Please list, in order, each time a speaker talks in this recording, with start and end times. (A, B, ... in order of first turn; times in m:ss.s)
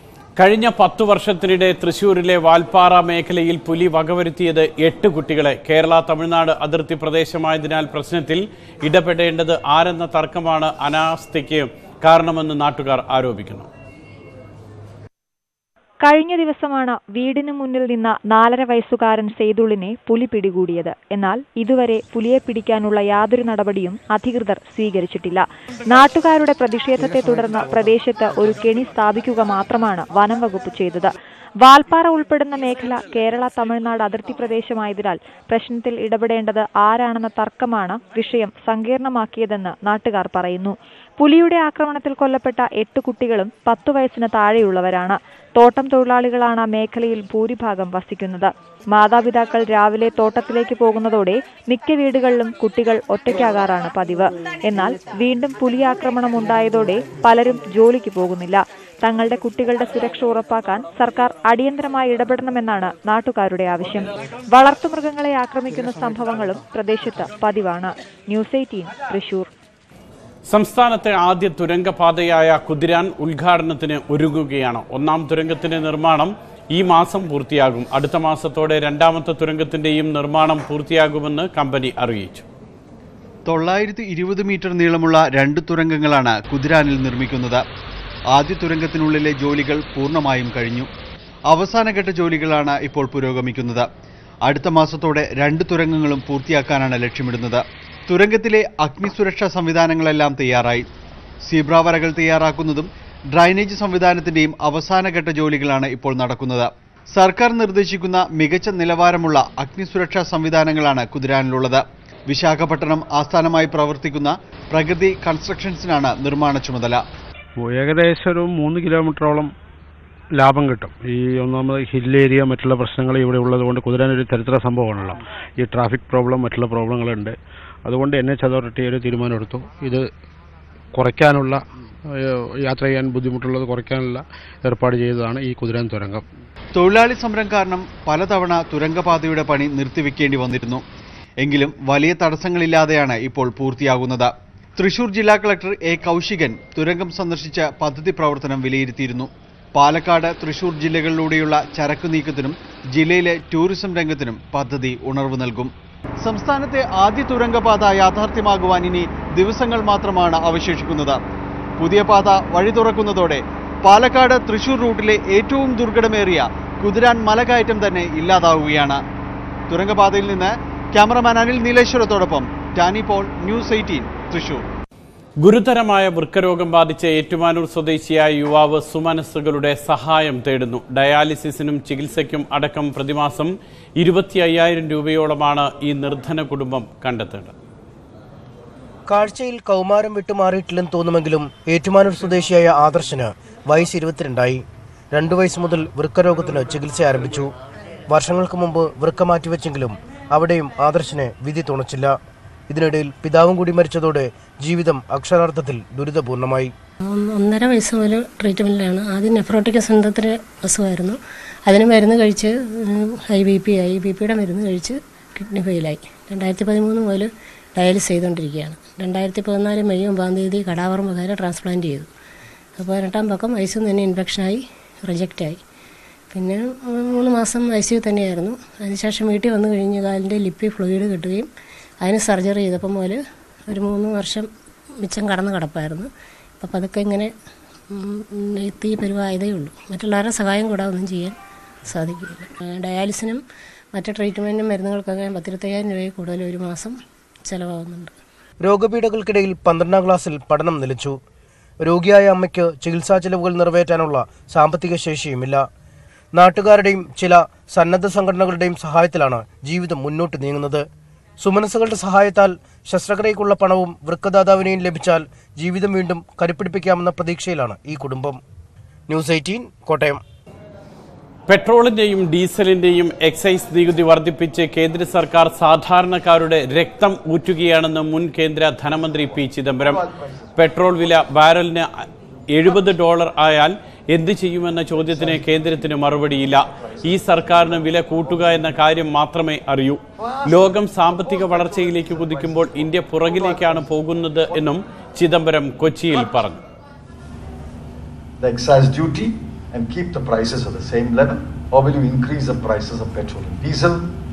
0:00.4-0:13.7 A
0:16.0-1:09.5 B
1:10.5-1:22.4 A
1:23.5-1:27.6 C
1:28.3-1:30.9 C
1:31.5-1:33.9 C
1:34.4-1:40.8 C
1:41.5-1:57.0 C
1:57.6-1:59.5 D
2:00.4-2:10.1 D
2:10.9-2:11.6 D
2:12.2-2:16.2 D
2:16.8-2:20.8 C
2:21.4-2:41.2 C
2:41.8-2:49.0 C
2:49.7-2:54.6 C
2:55.4-3:07.5 A
3:09.1-3:17.5 E
3:18.1-3:22.2 E
3:22.7-3:26.7 E
3:27.1-3:42.1 F
3:42.8-3:45.6 F
3:46.3-3:51.5 F
3:52.0-3:54.5 F
3:55.0-3:57.3 F
3:57.9-4:01.4 F
4:01.9-4:03.4 F
4:03.9-4:08.1 F
4:08.6-4:11.2 E
4:11.8-4:15.6 E
4:16.3-4:20.8 E
4:21.4-4:28.4 E
4:29.1-4:30.2 E
4:31.5-4:41.9 A
4:39.8-4:40.6 G
4:42.5-4:56.6 A
4:45.2-4:45.4 G
4:46.8-4:47.9 G
4:58.4-5:04.1 G